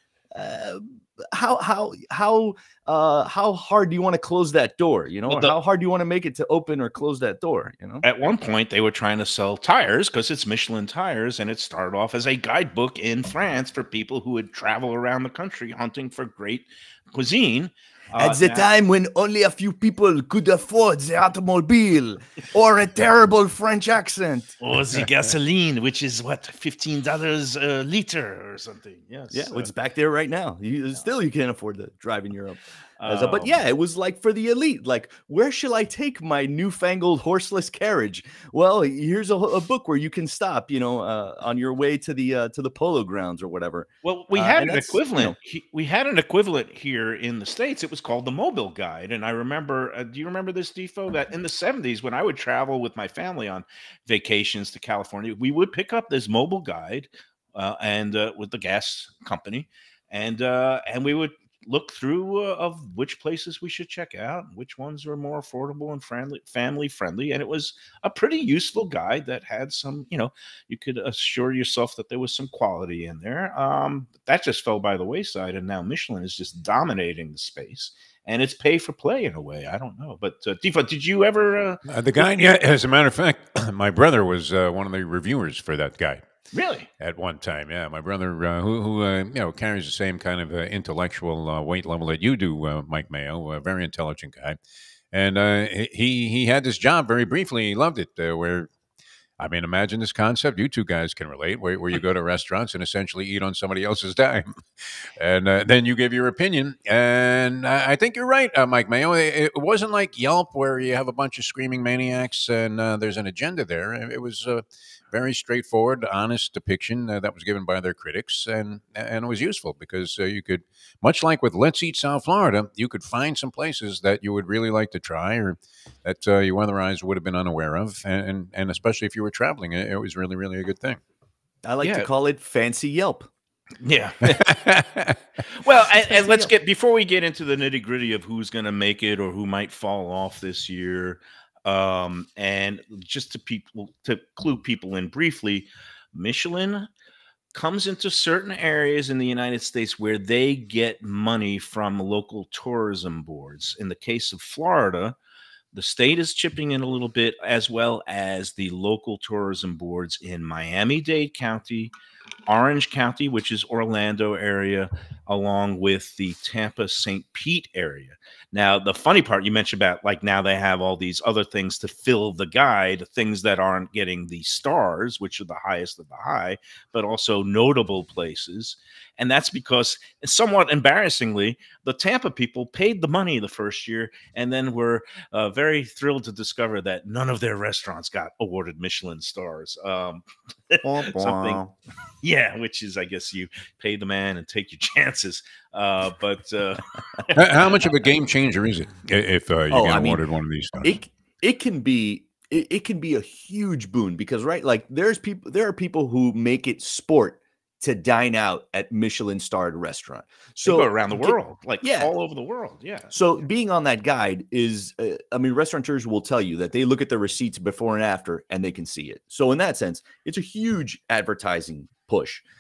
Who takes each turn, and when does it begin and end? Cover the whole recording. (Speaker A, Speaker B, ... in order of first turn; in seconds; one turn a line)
Speaker A: 0.3-8.0
Speaker B: 5.3-5.5
Speaker B: 8.0-18.7
Speaker A: 18.1-24.5
Speaker B: 24.6-29.7
Speaker A: 29.3-45.4
Speaker B: 33.0-33.6
Speaker B: 44.0-81.8
Speaker C: 81.9-86.2
Speaker B: 86.5-86.9
Speaker C: 87.0-94.6
Speaker C: 95.1-98.7
Speaker C: 99.4-131.0
Speaker A: 131.6-133.3
Speaker B: 131.8-132.1
Speaker B: 133.8-134.5
Speaker C: 134.2-135.2
Speaker B: 135.6-146.9
Speaker A: 136.1-136.5
Speaker B: 147.5-155.2
Speaker B: 155.7-161.9
Speaker B: 162.5-191.6
Speaker A: 190.8-191.7
Speaker B: 192.2-197.9
Speaker C: 197.3-201.0
Speaker A: 199.7-200.2
Speaker A: 200.8-212.1
Speaker B: 210.7-213.2
Speaker A: 213.1-222.4